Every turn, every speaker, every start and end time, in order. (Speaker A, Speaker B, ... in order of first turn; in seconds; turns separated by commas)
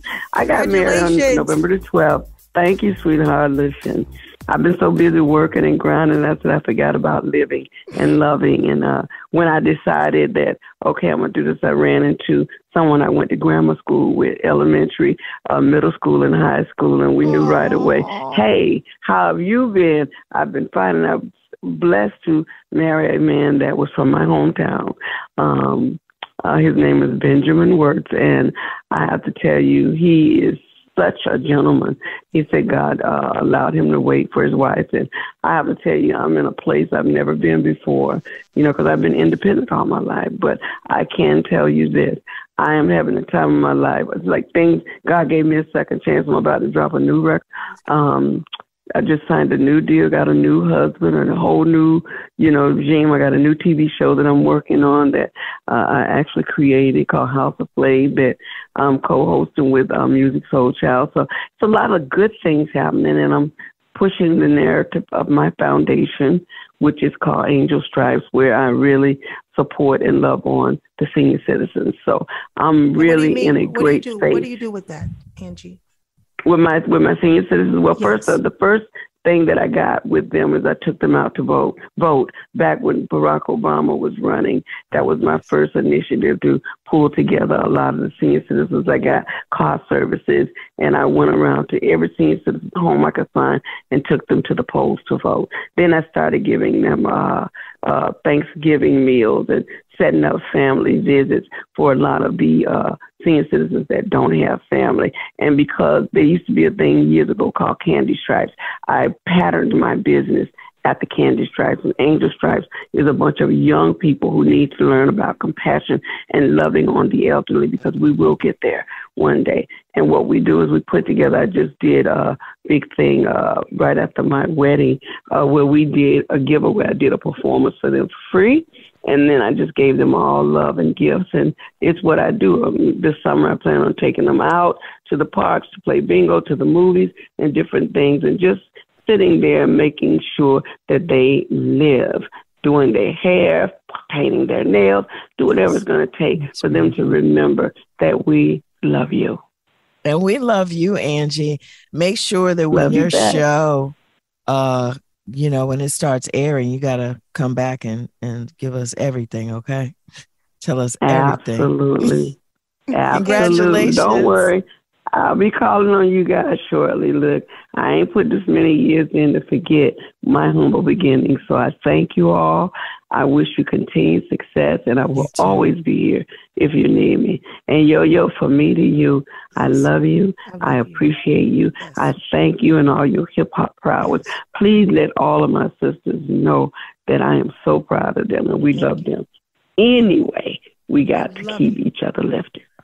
Speaker A: 0.3-48.4, Speaker B: 0.5-1.6, Speaker B: 17.2-18.5, Speaker B: 47.7-48.1, Speaker A: 49.0-74.5, Speaker B: 73.0-75.8, Speaker A: 76.5-149.4, Speaker B: 77.9-78.4, Speaker B: 145.5-145.8, Speaker C: 150.0-153.9, Speaker A: 152.7-153.4, Speaker C: 154.5-159.9, Speaker C: 160.6-161.7, Speaker A: 161.0-162.3, Speaker B: 162.9-164.3, Speaker A: 162.9-189.2, Speaker C: 163.1-164.5, Speaker B: 175.1-175.7, Speaker B: 179.6-179.9, Speaker B: 180.4-181.2, Speaker B: 181.8-182.2, Speaker B: 184.0-184.3, Speaker B: 188.7-189.1, Speaker A: 189.8-192.6, Speaker B: 191.2-191.8